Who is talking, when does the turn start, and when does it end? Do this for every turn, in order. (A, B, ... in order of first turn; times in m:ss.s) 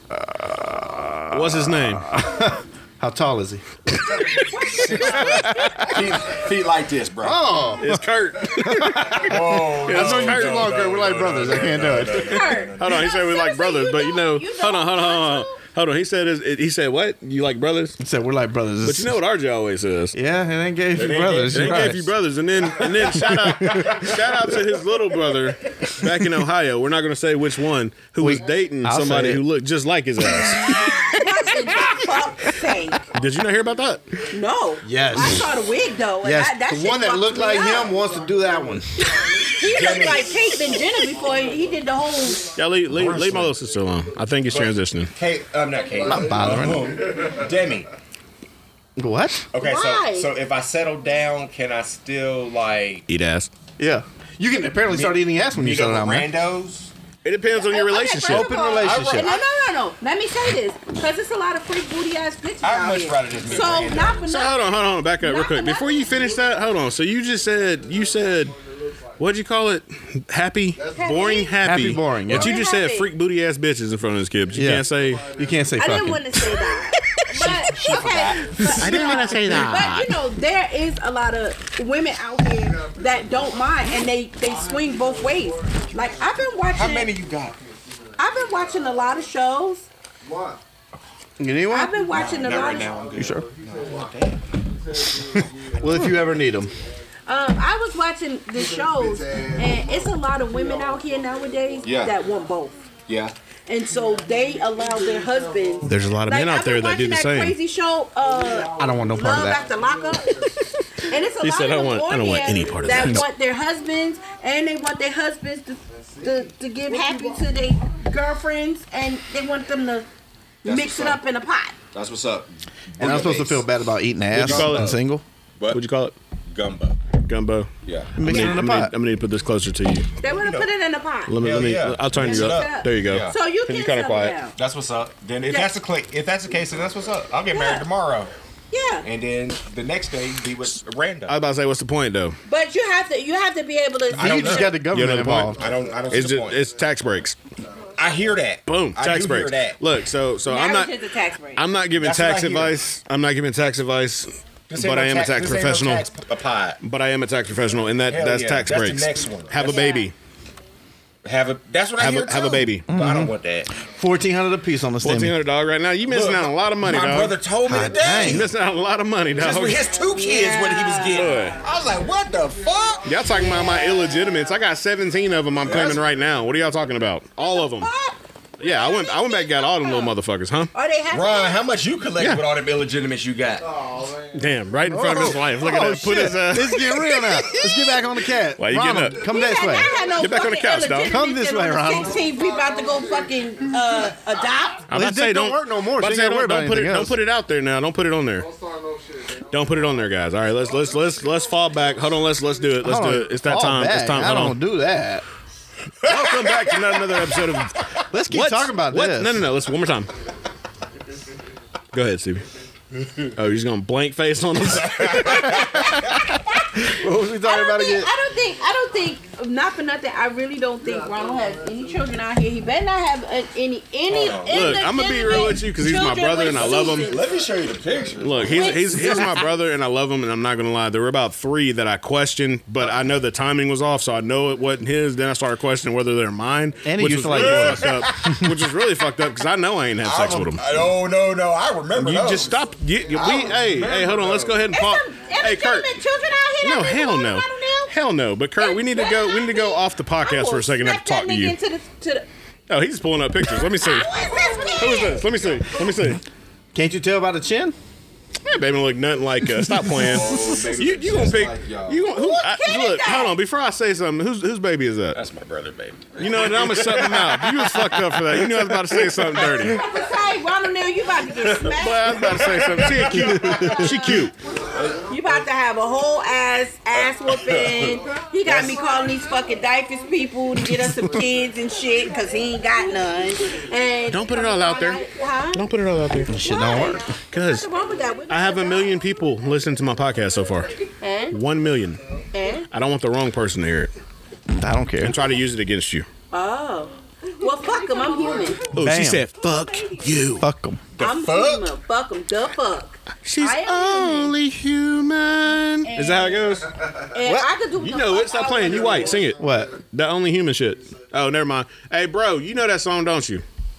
0:00.1-0:03.6 A
0:01.3-0:02.1 B
0:04.1-0:07.7 C
0:04.3-0:06.2 D
0:05.2-0:06.0 A
0:07.2-0:12.4 A
0:07.8-0:10.7 B
0:09.1-0:13.1 C
0:12.2-0:15.6 D
0:12.8-0:18.0 B
0:18.0-0:19.2 A
0:18.8-0:20.2 B
0:20.1-0:22.1 A
0:20.9-0:22.0 C
0:21.5-0:31.0 B
0:22.8-0:23.1 C
0:22.9-0:24.1 A
0:23.7-0:24.1 C
0:28.2-0:29.4 A
0:30.3-0:31.0 A
0:31.0-0:33.1 D
0:33.1-0:34.1 B
0:33.5-0:33.8 E
0:34.3-0:38.0 D
0:34.8-0:35.5 A
0:36.2-0:39.0 A
0:37.6-0:44.5 E
0:39.5-0:42.6 D
0:39.6-0:40.8 C
0:42.5-0:45.1 B
0:42.8-0:43.6 C
0:44.5-0:47.9 C
0:45.7-0:47.8 E
0:46.0-0:47.0 A
0:49.0-0:49.5 A
0:49.5-0:53.0 C
0:49.6-0:50.3 D
0:53.1-0:53.5 B
0:53.8-0:56.3 A
0:54.9-0:56.9 C
0:57.2-0:58.5 B
0:57.5-1:06.1 D
0:58.3-0:59.3 A
0:58.8-0:59.4 C
1:02.6-1:04.3 C
1:04.3-1:08.5 B
1:05.9-1:09.2 E
1:09.2-1:15.2 B
1:10.8-1:11.4 E
1:10.9-1:11.6 D
1:11.6-1:12.5 A
1:12.3-1:13.1 D
1:14.4-1:16.1 E
1:14.5-1:16.4 A
1:15.7-1:27.1 D
1:17.2-1:19.6 C
1:18.7-1:20.1 B
1:22.5-1:29.3 E
1:26.7-1:27.6 C
1:28.2-1:29.8 D
1:30.2-1:30.6 E
1:31.4-1:31.9 A
1:31.7-1:33.0 D
1:32.0-1:37.0 E
1:32.1-1:34.5 C
1:33.1-1:33.4 A
1:35.7-1:36.7 A
1:37.2-1:42.8 D
1:38.5-1:42.5 E
1:41.8-1:42.2 C
1:43.1-1:43.3 C
1:43.7-2:00.1 D
1:43.9-1:46.1 E
1:45.8-1:46.3 A
1:46.1-1:47.6 B
1:48.2-1:51.4 E
1:48.8-1:49.6 A
1:51.4-1:53.2 B
1:52.6-1:52.9 E
1:55.9-1:58.0 E
2:00.6-2:01.2 C
2:00.6-2:01.8 D
2:01.9-2:03.6 C
2:03.0-2:05.2 A
2:04.3-2:05.0 C
2:04.3-2:04.9 B
2:05.7-2:06.1 B
2:06.5-2:07.0 C
2:07.2-2:07.7 B
2:07.8-2:08.2 C
2:08.2-2:08.9 A
2:08.2-2:10.1 B
2:08.3-2:08.6 D
2:10.2-2:11.4 D
2:10.2-2:10.7 C
2:11.3-2:14.4 B
2:11.4-2:13.4 C
2:12.1-2:14.5 D
2:14.6-2:18.3 C
2:17.5-2:17.9 D
2:18.7-2:19.1 D
2:19.0-2:21.4 C
2:21.3-2:22.4 B
2:22.4-2:24.8 D
2:24.1-2:24.8 C
2:24.1-2:25.6 A
2:24.8-2:25.5 B
2:25.5-2:26.6 C
2:25.6-2:26.1 E
2:26.1-2:27.4 B
2:26.7-2:27.9 E
2:28.0-2:29.8 C
2:28.6-2:30.9 B
2:30.4-2:31.6 D
2:31.6-2:36.1 B
2:32.0-2:32.8 C
2:34.7-2:36.8 C
2:36.8-2:40.1 B
2:38.1-2:39.9 C
2:39.6-2:40.1 D
2:41.2-2:43.7 C
2:42.0-2:42.8 B
2:42.9-2:43.3 A
2:44.0-2:45.4 A
2:45.0-2:47.4 B
2:46.1-2:48.5 C
2:47.6-2:48.5 A
2:48.2-2:49.9 B
2:49.4-2:53.2 C
2:49.8-2:50.3 E
2:50.1-2:51.6 D
2:51.1-2:51.6 B
2:51.5-2:54.5 E
2:53.0-2:57.9 B
2:53.3-2:54.3 D
2:55.6-2:56.5 E
2:55.6-2:56.0 C
2:57.4-3:00.1 D
2:58.6-3:00.7 B
3:00.7-3:01.6 D
3:01.1-3:03.6 C
3:03.6-3:05.2 E
3:04.3-3:07.2 B
3:04.9-3:09.9 A
3:07.1-3:08.0 E
3:08.6-3:09.2 B
3:09.2-3:10.3 E
3:09.2-3:14.9 D
3:10.2-3:11.2 B
3:11.1-3:12.2 A
3:11.8-3:14.5 E
3:14.9-3:18.4 B
3:14.9-3:17.2 A
3:18.4-3:22.8 E
3:19.5-3:24.6 B
3:22.8-3:25.2 A
3:26.0-3:30.1 B
3:26.0-3:26.8 C
3:28.1-3:29.4 A
3:31.9-3:32.4 B
3:33.3-3:35.6 B
3:34.7-3:36.1 C
3:36.8-3:38.1 A
3:37.4-3:47.3 D
3:40.8-3:42.1 E
3:44.1-3:44.8 C
3:44.5-3:47.1 B
3:46.4-3:48.9 C
3:47.2-3:48.4 E
3:48.2-4:00.7 B
3:48.4-3:49.5 D
3:56.8-3:58.5 A
3:57.3-3:58.3 C
4:00.0-4:04.7 C
4:01.9-4:05.9 B
4:02.3-4:04.5 E
4:04.7-4:07.9 D
4:06.6-4:11.6 B
4:08.6-4:12.3 D
4:12.7-4:14.1 B
4:13.5-4:15.3 D
4:14.8-4:16.2 B
4:16.7-4:17.7 A
4:18.5-4:25.2 B
4:19.6-4:20.4 A
4:19.9-4:22.0 C
4:22.0-4:23.4 D
4:25.1-4:27.5 C
4:26.2-4:29.8 B
4:29.6-4:32.5 D
4:31.4-4:34.2 C
4:31.7-4:34.3 B
4:33.1-4:34.1 A
4:33.8-4:34.1 D
4:34.4-4:35.4 E
4:34.7-4:35.1 C
4:35.1-4:45.6 D
4:36.9-4:38.9 C
4:37.6-4:39.1 E
4:40.7-4:41.0 A
4:44.1-4:45.0 B
4:45.5-4:46.4 B
4:46.3-4:47.0 A
4:46.3-4:49.1 D
4:47.3-4:47.7 B
4:48.3-4:50.7 B
4:51.0-4:51.4 D
4:51.3-4:52.0 B
4:52.3-4:52.7 D
4:52.7-4:53.9 B
4:54.5-4:55.2 A
4:55.0-4:56.1 B
4:56.3-4:58.8 D
4:58.1-4:58.5 E
4:58.7-5:00.4 B
4:58.7-4:59.3 A
4:59.4-5:00.2 D
5:00.4-5:00.8 A
5:01.0-5:01.7 C
5:01.0-5:04.3 D
5:03.2-5:06.7 B
5:05.8-5:06.6 D
5:07.1-5:09.3 D
5:07.2-5:07.5 A
5:07.7-5:09.4 B
5:08.6-5:09.6 E
5:09.4-5:09.7 A
5:09.9-5:13.4 B